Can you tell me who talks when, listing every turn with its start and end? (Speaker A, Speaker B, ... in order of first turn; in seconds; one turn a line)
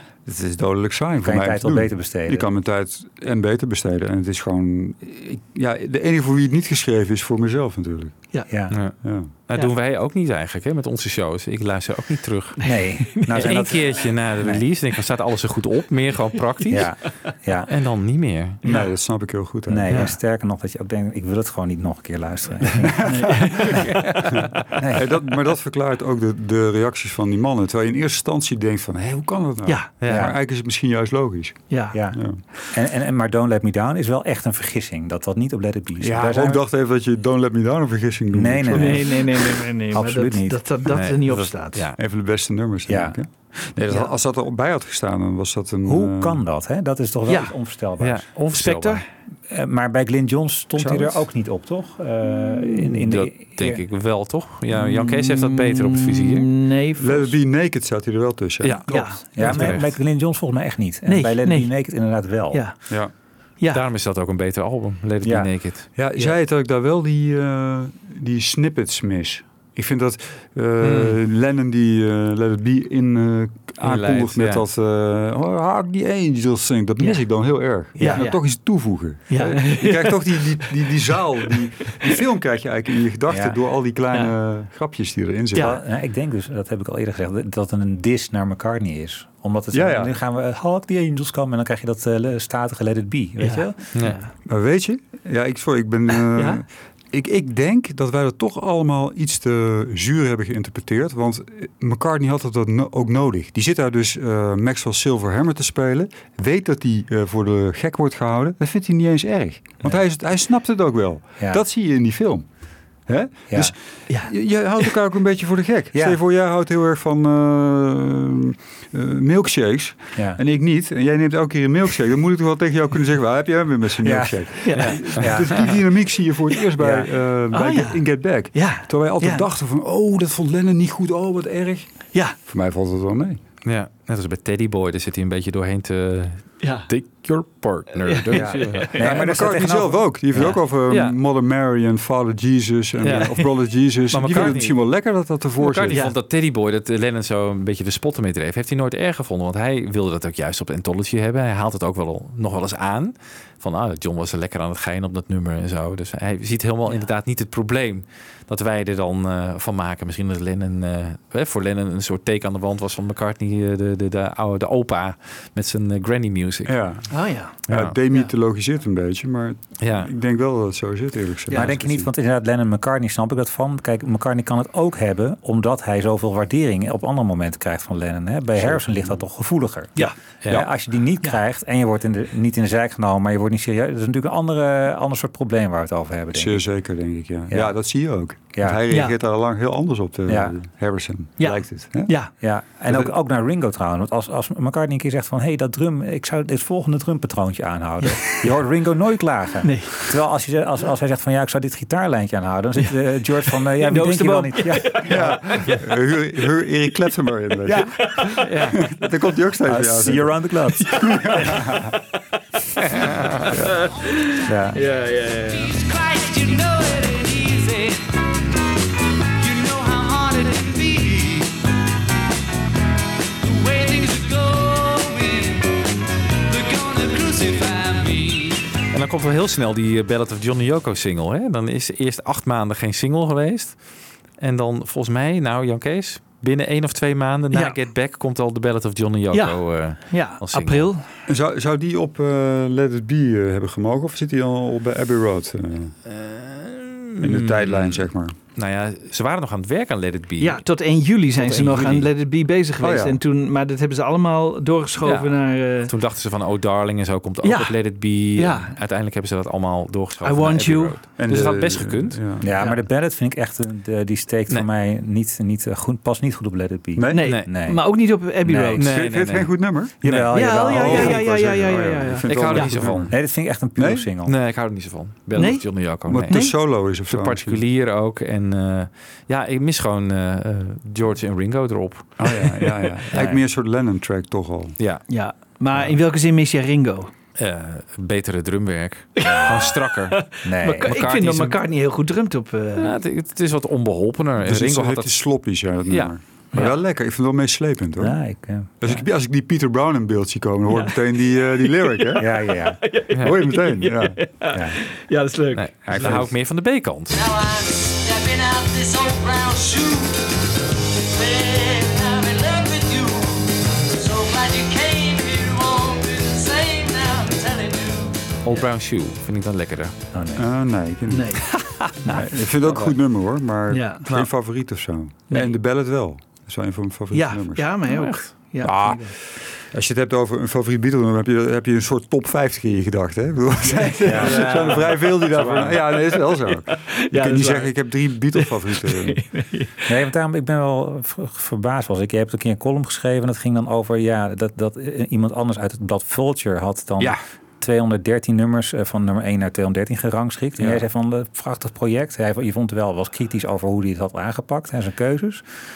Speaker A: 0.3-8.2
Speaker B: 1.2-2.5
Speaker B: 8.5-8.8
Speaker C: 8.7-17.1
Speaker A: 9.0-9.3
Speaker D: 12.6-13.7
Speaker B: 12.6-14.7
Speaker B: 16.7-17.7
Speaker C: 17.7-18.6
Speaker D: 18.6-18.9
Speaker A: 18.6-20.0
Speaker B: 19.7-25.2
Speaker C: 19.9-20.2
Speaker A: 22.7-32.4
Speaker D: 23.1-23.9
Speaker D: 29.6-29.9
Speaker C: 30.0-30.3
Speaker B: 30.1-30.4
Speaker D: 31.7-32.0
Speaker B: 31.9-36.6
Speaker A: 36.0-39.2
Speaker B: 38.3-40.6
Speaker D: 38.7-41.9
Speaker C: 40.9-42.0
Speaker A: 42.0-46.4
Speaker B: 42.9-43.2
Speaker B: 45.9-48.3
Speaker D: 47.3-47.5
Speaker C: 48.0-49.0
Speaker D: 48.5-49.0
Speaker B: 49.5-53.8
Speaker A: 50.8-51.2
Speaker C: 53.1-56.5
Speaker D: 54.7-57.4
Speaker A: 57.0-59.0
Speaker C: 58.6-60.0
Speaker D: 58.9-59.8
Speaker B: 59.3-62.6
Speaker D: 61.1-61.7
Speaker D: 62.5-62.8
Speaker C: 63.7-65.9
Speaker B: 65.2-65.5
Speaker A: 66.0-85.8
Speaker C: 70.8-71.2
Speaker C: 73.8-74.7
Speaker D: 78.0-78.7
Speaker D: 79.3-80.9
Speaker B: 83.3-83.6
Speaker D: 85.5-85.8
Speaker B: 85.5-94.2
Speaker A: 89.7-90.1
Speaker D: 93.4-94.3
Speaker C: 94.0-94.2
Speaker A: 94.5-112.5
Speaker D: 96.3-96.6
Speaker B: 111.4-111.6
Speaker A: 113.0-133.4
Speaker D: 114.1-114.9
Speaker B: 115.9-116.2
Speaker B: 124.0-125.8
Speaker D: 124.6-125.2
Speaker C: 124.8-125.6
Speaker B: 126.8-127.1
Speaker D: 127.5-129.5
Speaker C: 133.6-138.9
Speaker D: 136.6-136.9
Speaker D: 138.0-139.3
Speaker B: 138.3-140.4
Speaker A: 138.9-146.0
Speaker C: 140.3-141.2
Speaker C: 143.0-144.8
Speaker C: 145.6-166.8
Speaker D: 145.9-146.2
Speaker A: 166.7-172.1
Speaker D: 167.1-168.3
Speaker C: 167.7-168.0
Speaker C: 169.8-170.1
Speaker D: 171.5-171.8
Speaker B: 171.5-186.6
Speaker A: 178.6-179.2
Speaker C: 180.4-180.7
Speaker A: 186.3-192.1
Speaker B: 188.5-188.8
Speaker D: 188.9-189.2
Speaker B: 190.3-190.6
Speaker D: 191.4-192.3
Speaker B: 192.4-205.4
Speaker A: 192.9-193.1
Speaker D: 198.0-198.5
Speaker D: 199.6-200.2
Speaker D: 202.8-205.8
Speaker A: 205.1-210.4
Speaker B: 207.7-208.2
Speaker D: 207.7-208.4
Speaker C: 208.4-208.8
Speaker B: 209.6-211.7
Speaker D: 210.8-212.0
Speaker A: 211.0-211.9
Speaker C: 212.8-213.5
Speaker D: 213.5-215.7
Speaker A: 213.5-213.8
Speaker B: 214.4-214.8
Speaker E: 215.4-218.0
Speaker E: 219.4-221.6
Speaker E: 223.4-225.7
Speaker E: 226.5-228.6
Speaker C: 228.9-233.8
Speaker C: 234.4-240.9
Speaker D: 239.3-241.1
Speaker A: 241.3-245.9
Speaker C: 246.1-250.6
Speaker A: 247.2-248.3
Speaker D: 250.4-255.9
Speaker C: 251.3-252.1
Speaker A: 252.8-253.2
Speaker C: 255.0-262.2
Speaker D: 257.4-258.8
Speaker D: 260.2-261.0
Speaker A: 261.2-262.5
Speaker B: 262.4-268.8
Speaker A: 267.0-267.4
Speaker D: 267.1-268.9
Speaker C: 267.2-267.5
Speaker C: 268.8-270.3
Speaker A: 268.8-273.2
Speaker B: 270.0-271.2
Speaker D: 270.3-272.8
Speaker C: 272.3-273.1
Speaker B: 273.1-274.4
Speaker A: 273.8-274.1
Speaker C: 274.2-283.3
Speaker D: 275.4-276.6
Speaker A: 276.1-277.6
Speaker A: 282.2-284.8
Speaker C: 284.8-285.1
Speaker D: 285.1-287.1
Speaker C: 287.4-290.3
Speaker D: 289.2-292.9
Speaker B: 289.2-289.7
Speaker B: 290.4-290.9
Speaker C: 290.8-291.6
Speaker C: 292.8-295.1
Speaker A: 294.4-298.2
Speaker B: 298.0-298.8
Speaker A: 298.8-302.3
Speaker D: 300.7-306.2
Speaker B: 302.2-302.8
Speaker A: 303.2-304.2
Speaker B: 304.5-304.8
Speaker C: 305.6-307.2
Speaker A: 305.9-306.3
Speaker E: 307.1-310.3
Speaker E: 311.0-318.2
Speaker C: 318.4-320.0
Speaker B: 320.1-320.5
Speaker A: 320.4-321.5
Speaker D: 321.1-322.3
Speaker A: 322.1-327.7
Speaker D: 323.7-324.0
Speaker D: 325.3-325.6
Speaker D: 327.1-329.2
Speaker C: 327.9-329.0
Speaker A: 329.6-339.2
Speaker D: 333.6-340.0
Speaker B: 334.0-334.7
Speaker C: 335.3-335.8
Speaker B: 339.9-355.4